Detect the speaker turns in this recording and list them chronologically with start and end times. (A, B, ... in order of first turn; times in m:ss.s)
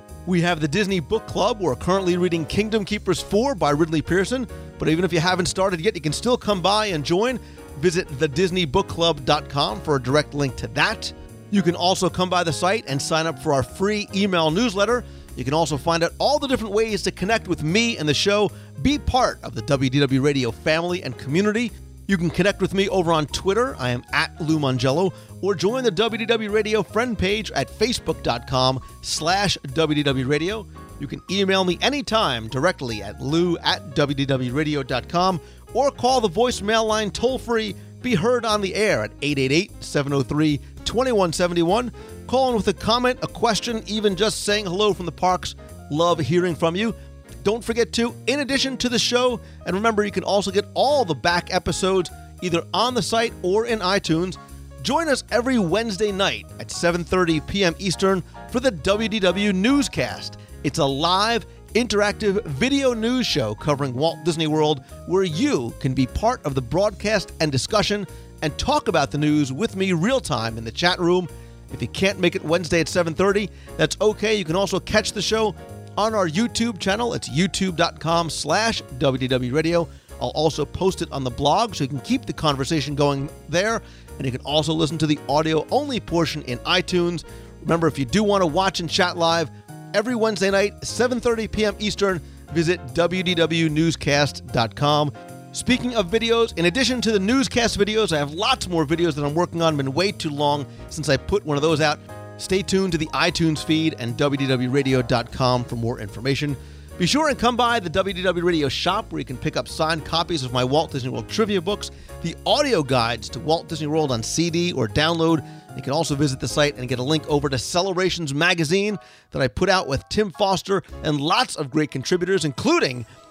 0:00.2-2:03.1 A